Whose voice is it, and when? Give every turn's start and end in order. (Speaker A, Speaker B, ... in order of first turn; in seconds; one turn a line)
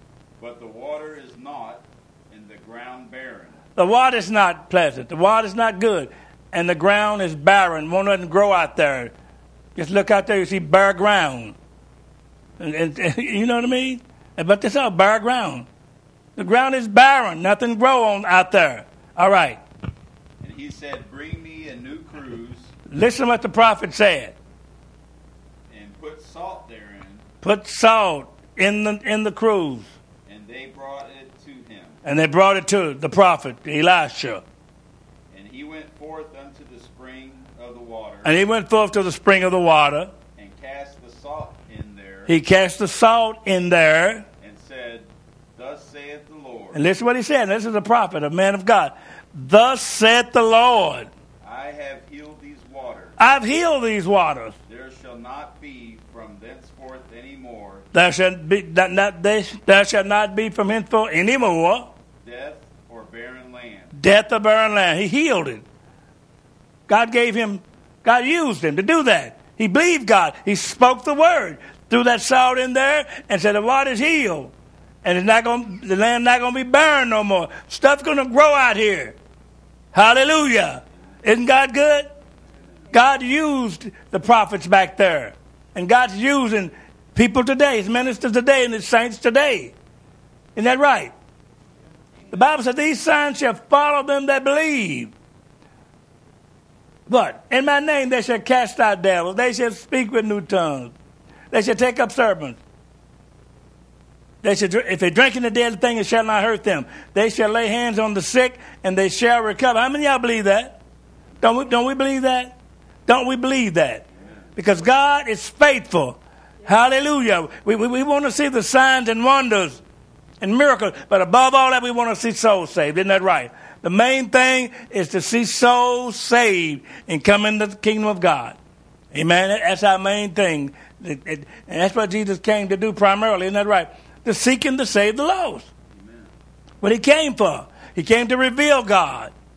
Speaker A: 0.4-3.6
Speaker B: 3.8-9.1
Speaker B: 9.8-11.6
Speaker B: 12.6-15.7
Speaker B: 16.4-19.6
Speaker A: 20.4-22.8
Speaker B: 22.9-24.4
Speaker A: 25.7-27.3
Speaker B: 27.4-29.9
Speaker A: 30.3-32.0
Speaker B: 32.0-34.4
Speaker A: 35.3-38.4
Speaker B: 38.2-40.1
Speaker A: 40.4-42.4
Speaker B: 42.3-44.3
Speaker A: 44.4-46.9
Speaker B: 46.7-51.1
Speaker A: 51.4-53.2
Speaker B: 53.2-54.6
Speaker A: 54.7-57.9
Speaker B: 57.9-61.9
Speaker A: 62.2-63.9
Speaker B: 63.9-65.6
Speaker B: 66.9-74.5
Speaker B: 75.0-79.2
Speaker B: 79.9-82.1
Speaker B: 82.9-89.8
Speaker B: 90.6-91.1
Speaker B: 92.3-95.1
Speaker B: 97.1-100.9
Speaker B: 101.5-102.6
Speaker B: 104.4-110.8
Speaker B: 111.4-119.8
Speaker A: 114.2-114.5
Speaker B: 120.4-128.6
Speaker B: 129.1-135.7
Speaker A: 135.9-136.3
Speaker B: 136.8-139.3